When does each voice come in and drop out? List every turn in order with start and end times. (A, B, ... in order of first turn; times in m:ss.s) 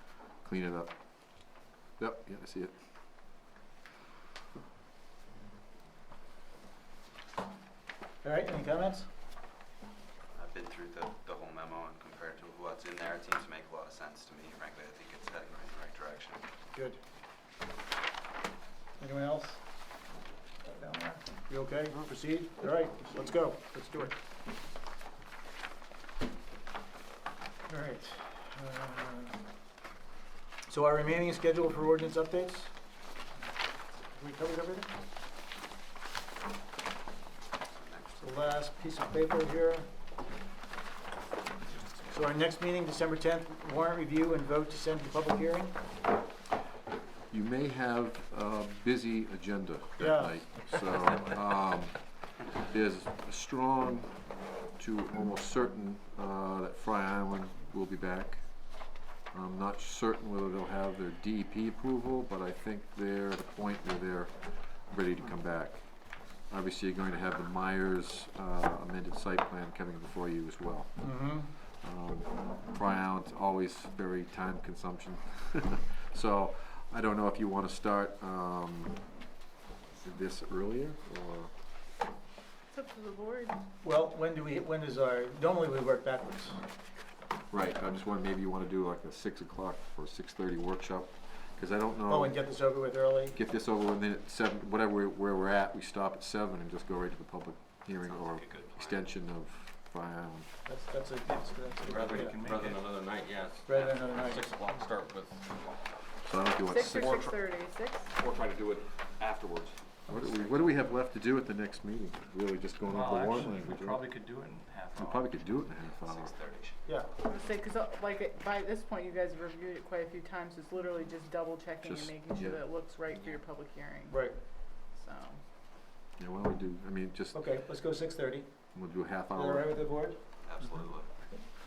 0:00.4-0:00.9 A
0:02.0-0:02.7 A
0:08.2-0:09.1 B
0:10.3-0:16.4 C
0:16.7-0:17.0 B
0:19.0-0:19.6 B
0:20.6-0:24.1 B
0:27.7-0:29.4 B
0:30.7-0:32.7 B
0:34.1-0:34.9 B
0:38.2-0:39.9 B
0:42.1-0:45.8 B
0:47.3-0:58.4 A
0:50.0-0:50.4 B
0:59.3-1:05.9 A
1:06.5-1:19.0 A
1:11.0-1:11.5 B
1:20.0-1:21.5 A
1:22.7-1:23.6 D
1:23.8-1:26.6 B
1:27.5-1:32.4 A
1:32.0-1:33.4 B
1:33.3-1:40.5 A
1:38.6-1:39.0 C
1:40.6-1:42.5 B
1:41.8-1:42.9 E
1:41.9-1:45.5 F
1:43.6-1:44.5 B
1:46.2-1:47.2 A
1:46.6-1:48.1 D
1:46.8-1:47.4 F
1:48.2-1:49.8 F
1:50.1-1:54.1 A
1:52.8-1:55.3 E
1:55.0-1:56.3 A
1:55.8-1:56.8 C
1:56.8-1:57.1 B
1:57.2-2:04.3 D
2:01.8-2:02.6 A
2:04.1-2:04.4 B
2:04.8-2:05.4 D
2:06.2-2:07.4 A
2:07.3-2:08.5 B
2:08.7-2:09.7 A
2:09.3-2:10.2 B
2:10.5-2:11.0 C